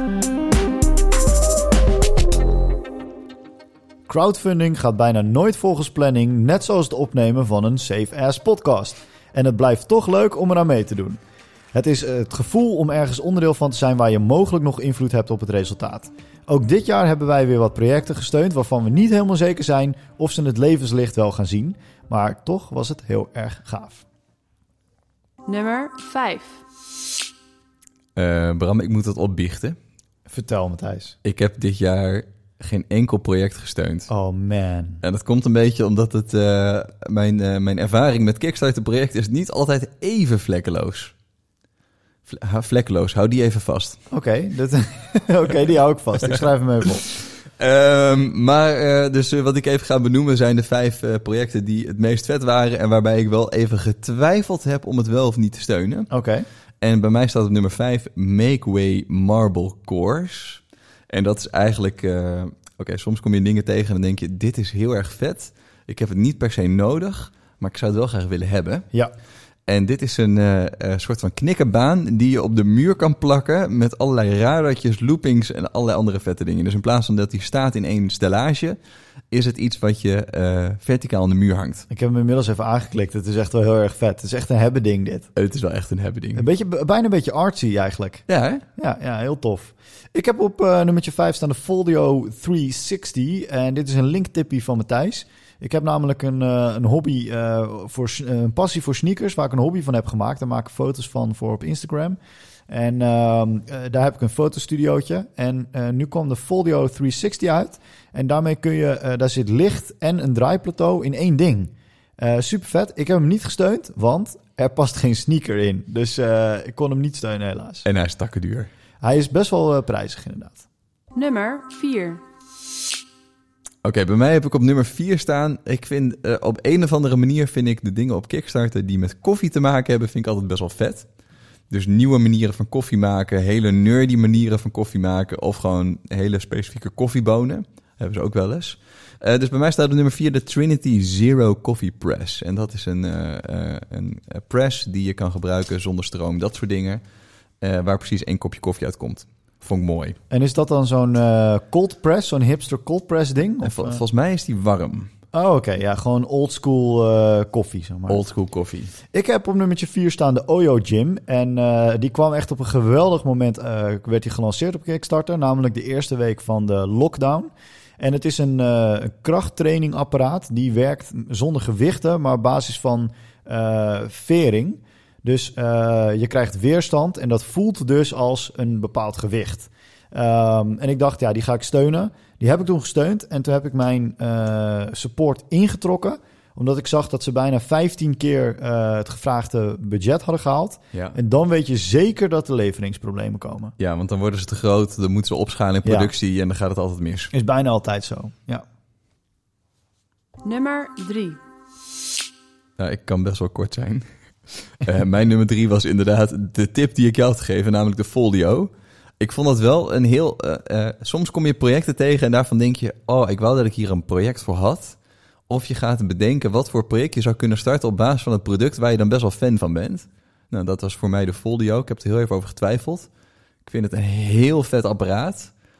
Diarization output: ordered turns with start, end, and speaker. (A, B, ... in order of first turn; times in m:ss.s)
0:04.1-0:11.2 A
0:11.7-0:24.0 A
0:25.4-0:26.6 B
0:28.2-0:29.8 C
0:30.3-0:31.2 A
0:31.2-0:34.1 C
0:34.1-0:35.0 A
0:35.0-0:41.1 C
0:42.3-0:44.0 C
0:44.1-0:47.1 A
0:47.6-0:56.1 C
0:56.1-0:56.4 A
0:56.8-1:08.9 C
1:09.7-1:18.8 C
1:19.3-1:21.8 C
1:21.9-1:25.3 A
1:25.4-1:26.4 C
1:26.3-1:28.2 A
1:28.3-1:28.6 C
1:28.8-1:42.2 A
1:42.7-1:57.8 A
1:57.8-1:58.7 C
1:59.0-2:00.6 A
2:01.1-2:02.2 B
2:03.8-2:11.1 C
2:11.7-2:27.0 C
2:27.6-2:30.2 C
2:30.3-2:34.0 A
2:33.6-2:35.1 C
2:35.3-2:38.2 A
2:38.1-2:38.9 C
2:39.1-3:13.7 A
3:13.8-3:17.3 C
3:15.8-3:16.1 A
3:17.3-3:18.6 A
3:20.4-3:21.4 B
3:22.8-3:24.0 C
3:24.6-3:35.0 C
3:35.5-3:43.1 C
3:43.6-3:45.5 C